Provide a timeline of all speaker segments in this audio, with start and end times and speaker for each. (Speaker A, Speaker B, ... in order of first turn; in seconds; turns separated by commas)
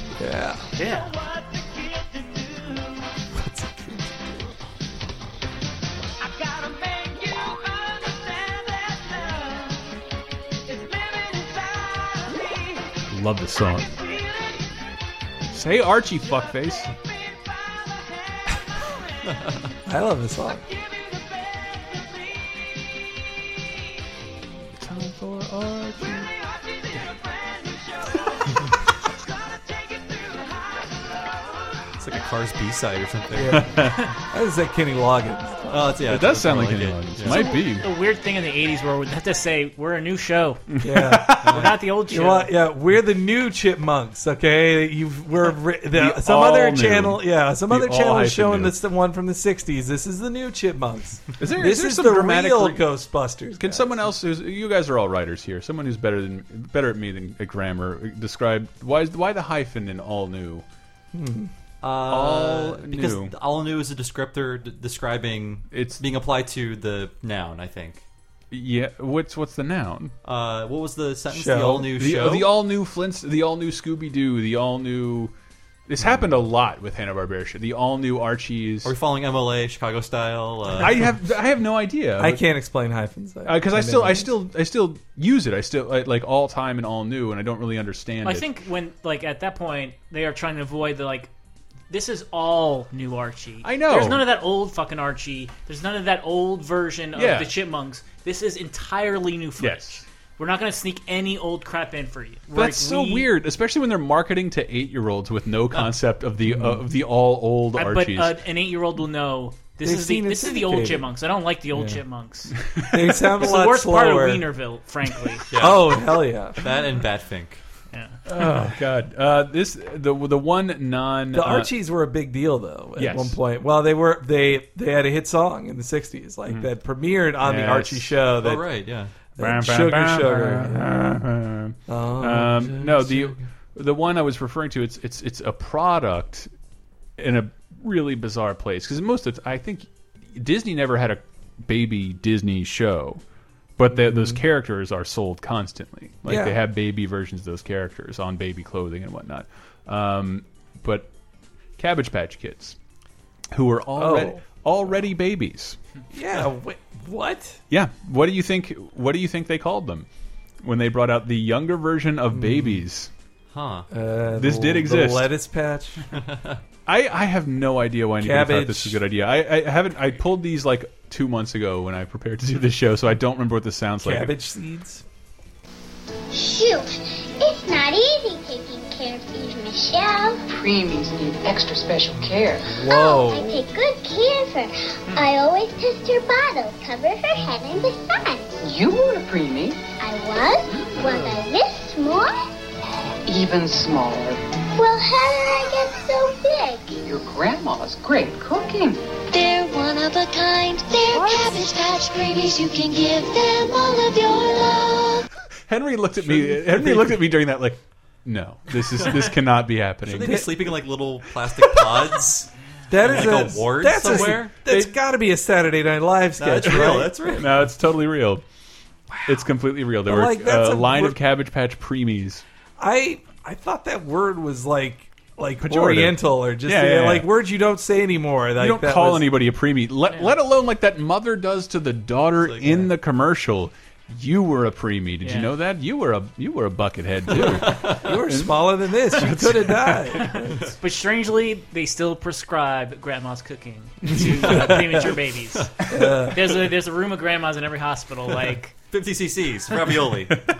Speaker A: 0.2-0.7, Speaker B: 0.8-1.1, Speaker A: 3.3-4.5, Speaker C: 13.1-13.9, Speaker C: 15.5-16.9, Speaker A: 19.9-20.6, Speaker C: 24.7-26.3, Speaker D: 32.0-33.7, Speaker A: 33.3-36.0, Speaker C: 33.5-34.1, Speaker D: 35.7-37.4, Speaker C: 36.0-37.9, Speaker B: 37.3-40.6, Speaker C: 40.7-41.7, Speaker A: 40.8-54.1, Speaker B: 41.5-42.5, Speaker C: 45.9-48.8, Speaker C: 51.4-52.9, Speaker C: 53.6-60.6, Speaker A: 61.1-61.5, Speaker D: 61.8-68.0, Speaker C: 62.1-63.3, Speaker C: 65.7-66.0, Speaker C: 68.5-70.1, Speaker D: 70.2-72.5, Speaker A: 71.3-71.9, Speaker C: 71.9-75.3, Speaker C: 75.9-78.9, Speaker D: 78.8-81.0, Speaker C: 80.8-82.4, Speaker A: 82.2-84.3, Speaker C: 83.4-88.6, Speaker B: 88.2-91.3, Speaker B: 91.9-103.3, Speaker C: 93.6-94.3, Speaker C: 97.1-97.5, Speaker C: 99.6-100.0, Speaker C: 102.5-108.4, Speaker A: 106.4-106.8, Speaker B: 107.7-112.5, Speaker A: 109.8-111.1, Speaker A: 111.7-112.0, Speaker C: 112.7-113.2, Speaker A: 112.9-114.5, Speaker B: 113.4-115.4, Speaker D: 115.5-117.6, Speaker A: 115.6-116.7, Speaker B: 117.9-118.2, Speaker C: 118.2-121.7, Speaker A: 121.3-128.6, Speaker C: 123.0-123.4, Speaker C: 127.4-128.2, Speaker D: 128.4-129.1, Speaker A: 129.4-130.9, Speaker C: 129.4-136.5, Speaker A: 131.9-133.4, Speaker C: 137.2-143.2, Speaker C: 143.8-151.1, Speaker A: 143.9-144.4, Speaker A: 146.2-146.6, Speaker C: 151.8-152.8, Speaker C: 153.5-155.8, Speaker A: 154.0-154.4, Speaker A: 156.1-157.6, Speaker C: 157.7-160.1, Speaker C: 160.6-163.1, Speaker A: 162.3-162.8, Speaker D: 163.5-163.9, Speaker A: 163.9-166.1, Speaker C: 164.3-165.3, Speaker D: 166.1-166.6, Speaker C: 166.8-174.3, Speaker A: 168.2-169.0, Speaker A: 174.0-175.0, Speaker E: 176.3-180.4, Speaker F: 180.5-182.7, Speaker A: 182.1-183.6, Speaker E: 182.7-188.5, Speaker F: 188.6-189.8, Speaker E: 190.0-192.5, Speaker F: 193.2-194.4, Speaker E: 194.7-196.9, Speaker F: 197.0-199.0, Speaker G: 199.3-205.2, Speaker C: 205.7-210.5, Speaker A: 206.2-207.2, Speaker D: 210.1-214.5, Speaker A: 210.2-210.7, Speaker A: 212.9-217.5, Speaker C: 214.1-214.9, Speaker D: 216.4-217.5, Speaker C: 216.6-218.4, Speaker A: 219.1-219.4, Speaker C: 219.2-222.4, Speaker A: 220.0-221.2, Speaker A: 222.8-229.3, Speaker C: 225.6-227.3, Speaker C: 228.6-240.3, Speaker D: 232.4-232.9, Speaker B: 235.2-235.5, Speaker D: 237.4-238.0, Speaker A: 237.9-240.7, Speaker B: 240.6-248.7, Speaker A: 244.1-245.1, Speaker A: 245.9-246.6, Speaker D: 248.9-250.4